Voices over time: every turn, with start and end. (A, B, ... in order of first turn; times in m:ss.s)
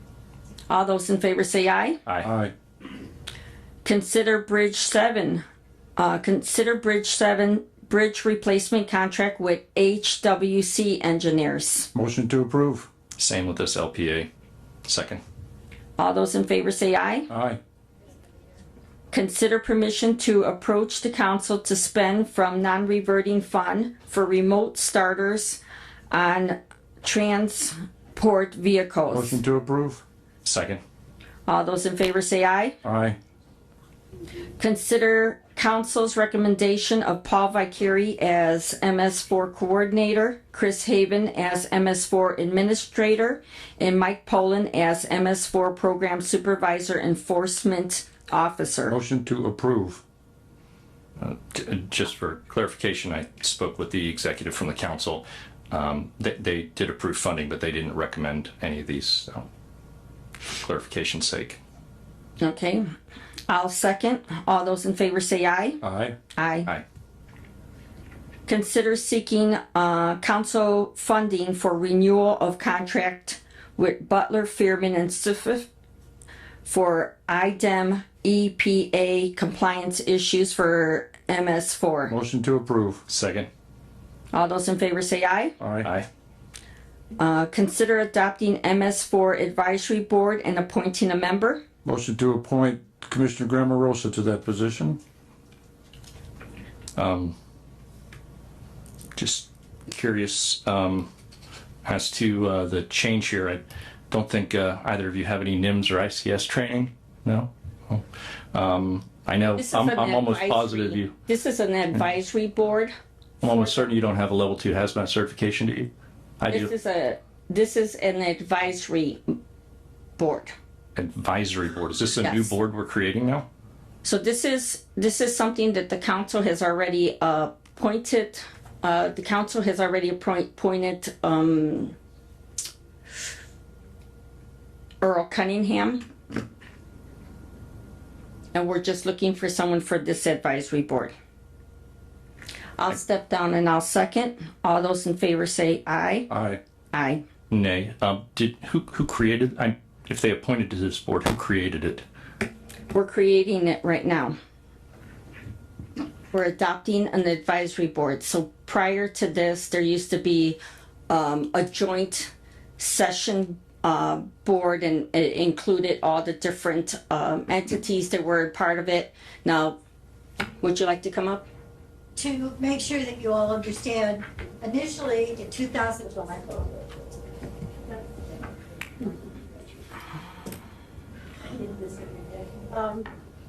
0:00.7-0:02.0 A
0:02.2-0:02.5 B
0:03.8-0:05.4 A
0:06.0-0:11.9 A
0:11.9-0:12.9 B
0:13.2-0:14.3 C
0:14.8-0:15.2 C
0:16.0-0:17.3 A
0:17.3-0:17.6 B
0:19.1-0:25.6 A
0:26.1-0:29.4 A
0:29.1-0:30.0 B
0:30.4-0:30.8 C
0:31.5-0:32.8 A
0:32.8-0:33.2 B
0:34.6-0:49.0 A
0:48.9-0:50.0 B
0:51.2-0:59.5 C
1:00.6-1:01.6 C
1:02.4-1:02.9 A
1:03.5-1:05.8 A
1:05.8-1:06.2 B
1:06.4-1:06.7 A
1:08.5-1:15.7 A
1:16.7-1:22.1 A
1:22.1-1:23.0 B
1:23.1-1:23.5 C
1:24.3-1:25.6 A
1:25.6-1:25.9 B
1:25.8-1:26.1 C
1:27.2-1:31.6 A
1:31.8-1:35.0 B
1:37.0-1:37.4 C
1:39.2-1:41.1 C
1:41.8-1:51.1 C
1:49.6-1:52.9 A
1:53.4-1:56.7 C
1:56.5-1:59.2 A
2:00.2-2:00.6 A
2:01.0-2:03.5 C
2:02.2-2:02.6 A
2:04.0-2:12.0 A
2:15.0-2:16.0 A
2:18.5-2:21.1 A
2:22.8-2:26.3 A
2:26.3-2:26.6 B
2:26.9-2:27.2 A
2:27.5-2:32.0 C
2:32.9-2:34.4 A
2:36.3-2:40.6 A
2:41.1-2:49.8 A
2:50.6-2:51.5 A
2:52.2-2:56.8 D
3:01.5-3:03.1 D